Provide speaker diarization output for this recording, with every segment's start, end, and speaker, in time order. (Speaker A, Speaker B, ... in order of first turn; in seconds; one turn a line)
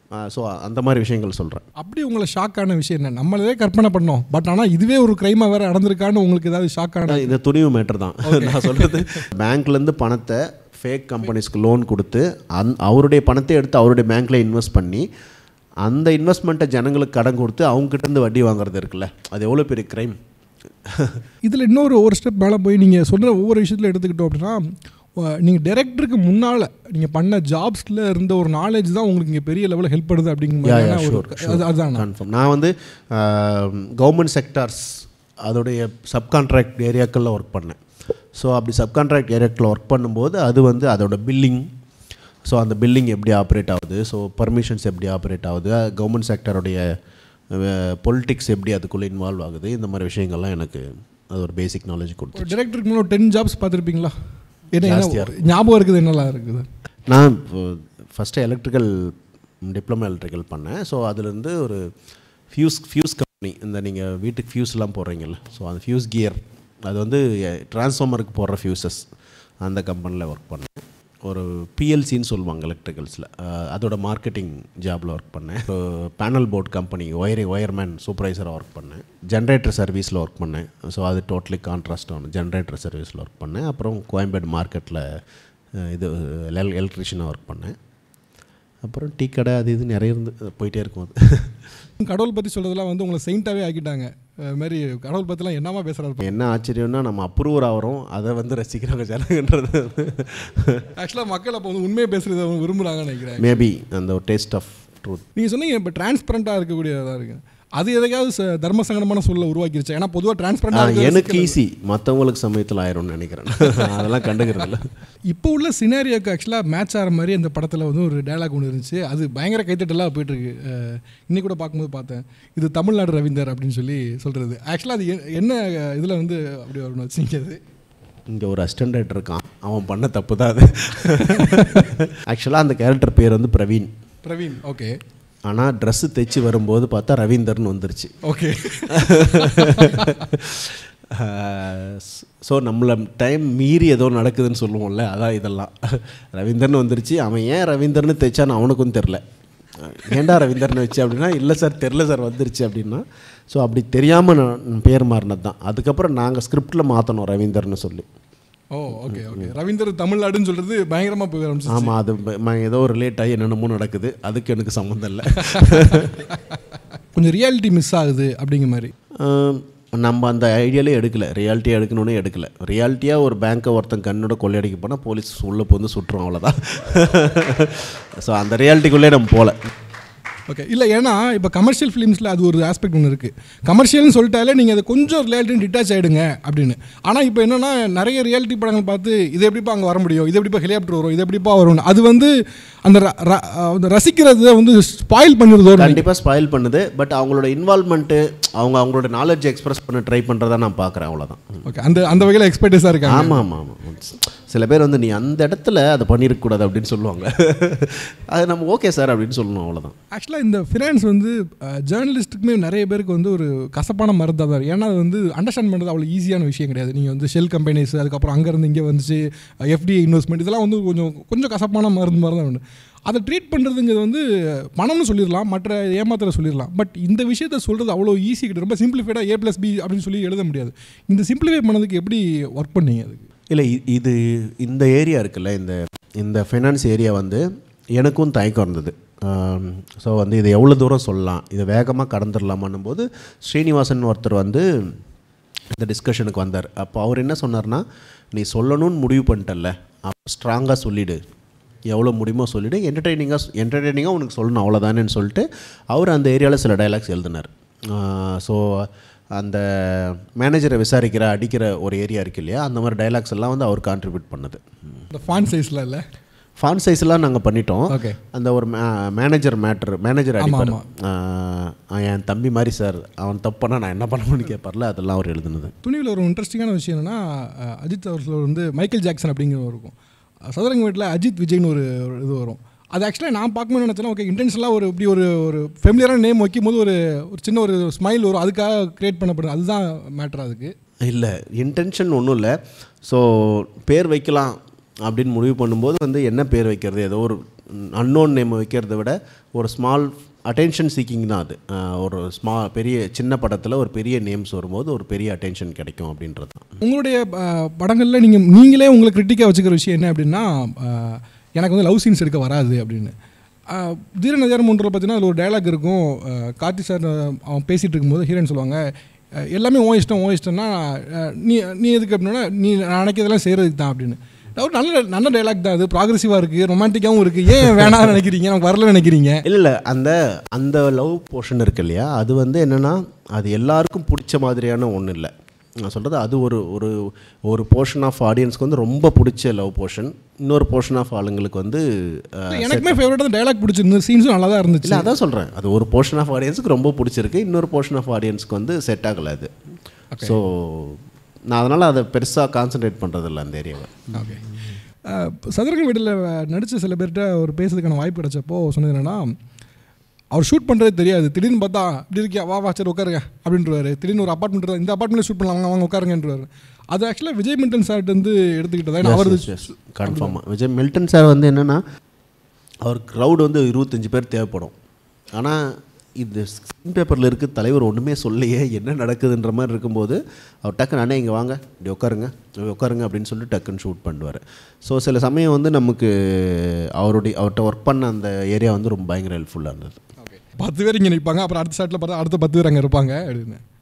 Speaker A: 0.1-1.6
Speaker B: 1.8-7.3
Speaker A: 7.1-15.1
Speaker B: 8.2-9.2
Speaker A: 15.8-20.1
Speaker A: 20.9-21.2
Speaker B: 21.4-24.6
Speaker B: 25.2-32.0
Speaker A: 30.6-37.8
Speaker A: 38.3-41.7
Speaker A: 42.5-46.9
Speaker A: 47.5-52.5
Speaker B: 52.3-54.1
Speaker B: 54.7-56.7
Speaker A: 54.8-55.4
Speaker A: 57.1-61.8
Speaker A: 62.5-69.0
Speaker A: 69.6-85.0
Speaker A: 85.8-87.7
Speaker A: 88.8-91.6
Speaker B: 92.0-96.3
Speaker A: 96.2-100.8
Speaker B: 101.0-103.6
Speaker A: 103.4-105.2
Speaker B: 105.3-111.6
Speaker A: 110.7-114.9
Speaker B: 113.7-114.0
Speaker B: 115.3-127.6
Speaker A: 128.3-133.9
Speaker B: 131.3-131.9
Speaker B: 134.2-135.0
Speaker A: 135.4-138.1
Speaker B: 138.2-140.2
Speaker A: 138.9-149.2
Speaker A: 149.8-158.1
Speaker B: 158.7-161.9
Speaker A: 159.1-159.5
Speaker A: 161.7-166.2
Speaker B: 165.4-166.1
Speaker B: 167.1-168.9
Speaker A: 169.2-179.6
Speaker B: 180.5-192.3
Speaker B: 192.8-196.0
Speaker A: 195.8-201.6
Speaker B: 201.6-203.4
Speaker A: 203.1-209.9
Speaker B: 210.1-233.2
Speaker A: 233.5-244.9
Speaker A: 245.7-251.2
Speaker A: 251.9-264.6
Speaker B: 265.1-266.1
Speaker A: 266.6-275.7
Speaker B: 267.9-268.2
Speaker B: 270.4-270.8
Speaker B: 275.8-279.9
Speaker B: 280.5-290.7
Speaker A: 291.0-306.8
Speaker B: 306.8-313.1
Speaker B: 313.7-329.4
Speaker A: 329.4-335.3
Speaker A: 335.8-343.0
Speaker B: 342.5-345.1
Speaker A: 344.8-349.5
Speaker A: 350.2-354.2
Speaker B: 354.1-354.4
Speaker B: 355.1-359.3
Speaker B: 360.3-370.4
Speaker A: 369.0-371.8
Speaker A: 372.8-374.7
Speaker A: 375.4-390.0
Speaker B: 390.2-393.6